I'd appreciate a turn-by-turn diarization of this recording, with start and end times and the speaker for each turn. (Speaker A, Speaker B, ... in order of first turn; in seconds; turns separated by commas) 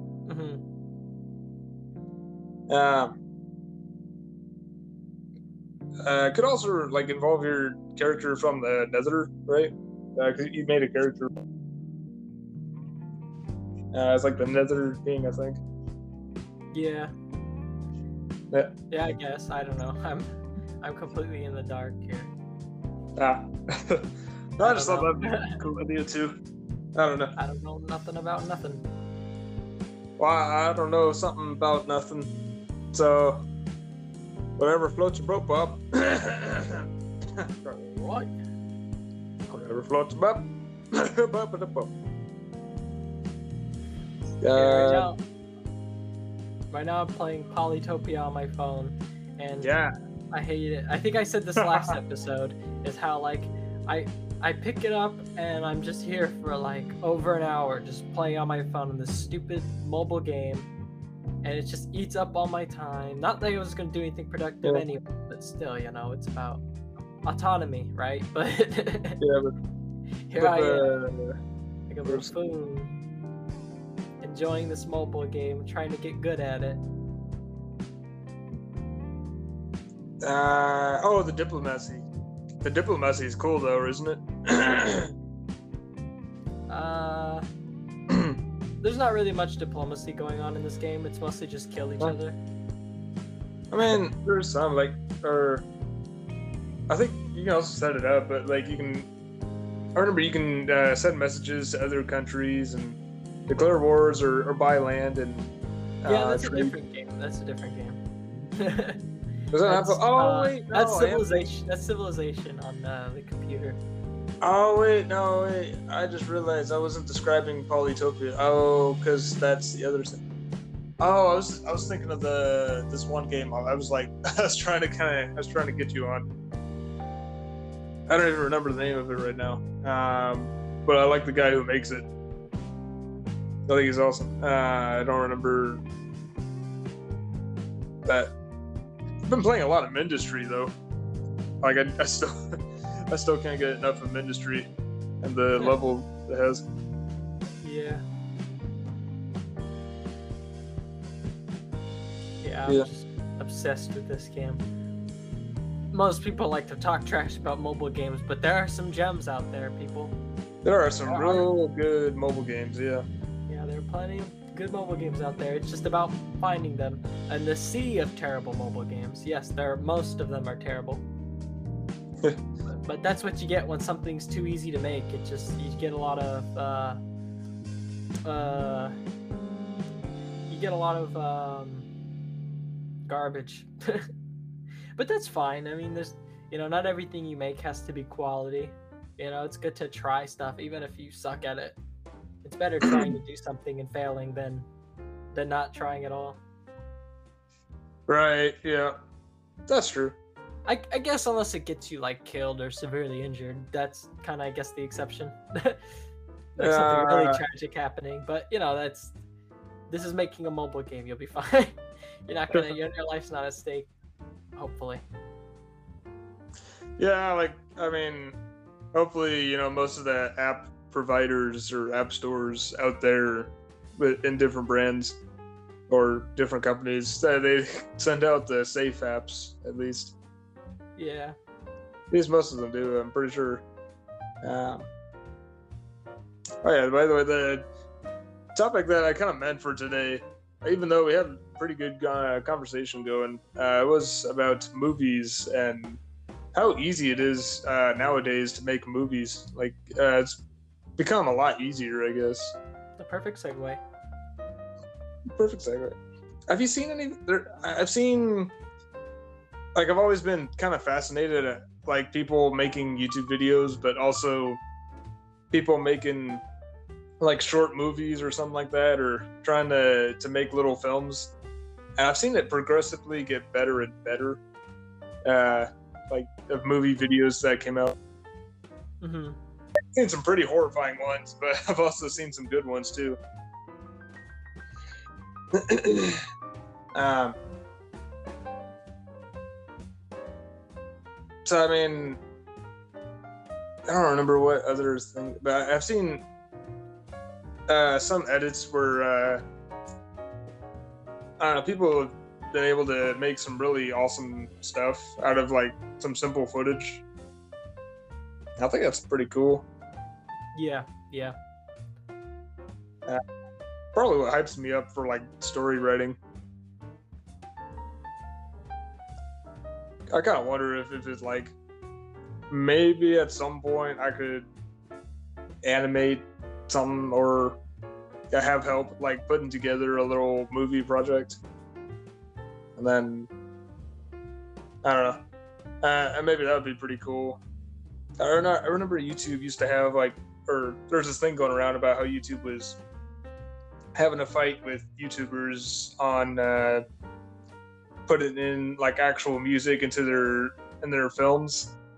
Speaker A: 0.3-0.6, Speaker B: 2.7-3.1, Speaker B: 6.0-11.3, Speaker B: 13.9-15.6, Speaker A: 16.7-17.1, Speaker A: 18.9-20.3, Speaker A: 20.8-22.3, Speaker B: 23.2-26.4, Speaker A: 24.6-25.6, Speaker B: 26.9-27.4, Speaker A: 27.4-28.9, Speaker B: 30.2-32.3, Speaker B: 32.9-33.4, Speaker B: 34.6-36.9, Speaker B: 37.4-38.0, Speaker A: 38.0-38.4, Speaker B: 39.5-41.9, Speaker B: 44.4-45.1, Speaker A: 44.5-45.2, Speaker A: 46.7-49.7, Speaker B: 49.6-49.9, Speaker A: 50.3-60.7, Speaker B: 51.6-51.9, Speaker A: 61.4-66.6, Speaker A: 67.2-69.2, Speaker B: 69.2-69.5, Speaker A: 70.3-70.9, Speaker B: 70.4-71.4, Speaker A: 71.9-72.9, Speaker A: 74.2-76.8, Speaker B: 80.2-82.0, Speaker B: 82.6-85.1, Speaker A: 86.7-87.4, Speaker B: 88.1-88.4, Speaker A: 88.8-92.4, Speaker B: 93.7-95.6, Speaker B: 96.9-99.1, Speaker B: 99.9-105.5, Speaker B: 106.0-106.7, Speaker A: 106.1-108.0, Speaker A: 108.5-109.0, Speaker B: 109.5-111.5, Speaker A: 109.7-113.8, Speaker B: 114.4-120.2, Speaker B: 121.0-126.3, Speaker B: 128.1-132.0, Speaker B: 133.7-135.8, Speaker B: 138.1-138.3, Speaker B: 139.2-140.7, Speaker B: 141.6-144.7, Speaker B: 145.2-146.6, Speaker A: 147.6-148.0, Speaker A: 152.4-154.6, Speaker A: 155.9-160.2, Speaker B: 160.6-163.0, Speaker A: 161.1-161.5, Speaker A: 163.5-171.0, Speaker A: 172.7-177.0, Speaker A: 178.2-178.9, Speaker A: 180.5-181.9, Speaker A: 183.1-184.1, Speaker A: 185.0-191.8, Speaker A: 192.4-194.7, Speaker B: 192.8-193.1, Speaker A: 195.3-196.4, Speaker B: 198.1-199.0, Speaker B: 199.7-200.2, Speaker A: 200.7-205.8, Speaker A: 206.6-209.1, Speaker B: 206.6-207.4, Speaker A: 209.9-213.9, Speaker A: 214.6-215.0, Speaker B: 217.0-218.4, Speaker B: 218.9-225.2, Speaker B: 225.9-230.2, Speaker A: 231.0-231.4, Speaker B: 232.1-233.6, Speaker B: 234.4-234.9, Speaker B: 236.6-237.6, Speaker B: 238.5-246.0, Speaker B: 246.5-250.4, Speaker B: 251.0-252.6, Speaker A: 253.0-253.8, Speaker B: 255.3-256.0, Speaker B: 256.5-258.5, Speaker B: 259.7-264.6, Speaker B: 265.5-266.4, Speaker B: 267.2-271.3, Speaker B: 272.0-274.4, Speaker B: 275.2-277.9, Speaker A: 279.0-279.4, Speaker B: 279.9-283.2, Speaker B: 285.5-286.2, Speaker B: 286.9-287.4, Speaker B: 291.4-292.2, Speaker B: 293.9-296.2, Speaker B: 297.7-299.4, Speaker B: 301.4-307.0, Speaker B: 308.6-309.6, Speaker A: 310.5-311.4, Speaker B: 313.9-316.2, Speaker B: 320.1-321.5, Speaker B: 322.5-324.5, Speaker B: 325.6-327.6, Speaker B: 328.3-331.4, Speaker B: 332.8-333.3, Speaker B: 334.8-335.2, Speaker B: 335.8-337.4, Speaker B: 338.2-342.8, Speaker B: 343.9-346.8, Speaker B: 348.1-351.8